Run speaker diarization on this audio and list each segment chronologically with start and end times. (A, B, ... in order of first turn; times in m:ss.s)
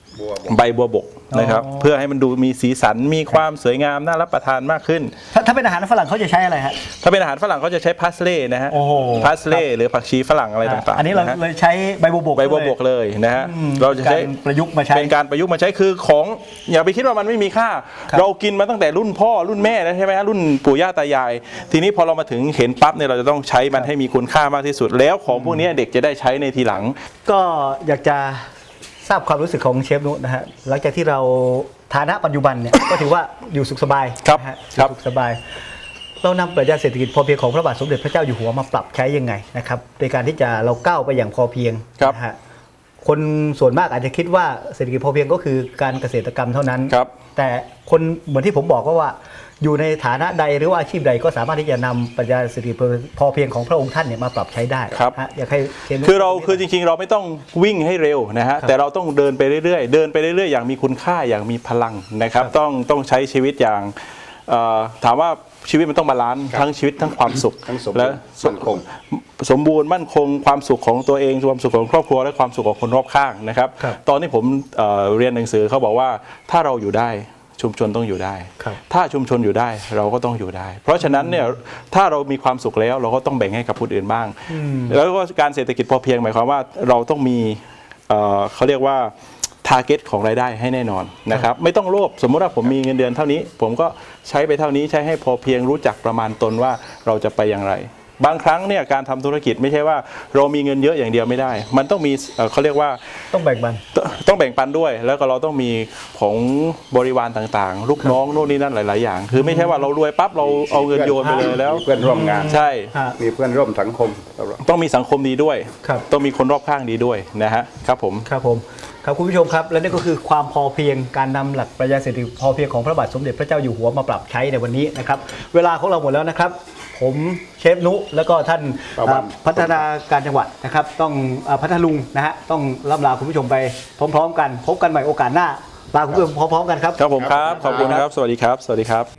0:00.2-0:00.5 A
0:00.5-0:05.1 B
0:01.3-0:01.9 C
0:05.3-0:06.8 C
0:07.0-0:11.4 B
0:08.7-0:09.6 C
0:10.6-0:12.8 C
0:12.4-0:14.3 B
0:13.4-0:15.1 C
0:14.9-0:27.0 B
0:25.3-0:25.6 C
0:27.3-0:28.5 C
0:29.0-0:35.4 C
0:34.2-0:34.9 B
0:36.2-0:42.4 C
0:43.0-0:56.6 C
0:56.0-1:04.0 B
1:04.5-1:29.1 B
1:07.7-1:08.9 A
1:21.0-1:21.4 C
1:24.5-1:25.0 C
1:29.6-1:43.0 B
1:43.3-1:43.8 C
1:43.9-1:51.9 B
1:49.3-1:49.8 C
1:50.5-1:52.6 A
1:52.0-1:53.2 C
1:52.5-1:52.9 B
1:53.2-1:54.6 A
1:54.6-1:58.3 B
1:58.3-2:18.0 C
2:09.0-2:09.8 A
2:17.0-2:19.1 B
2:17.2-2:18.0 A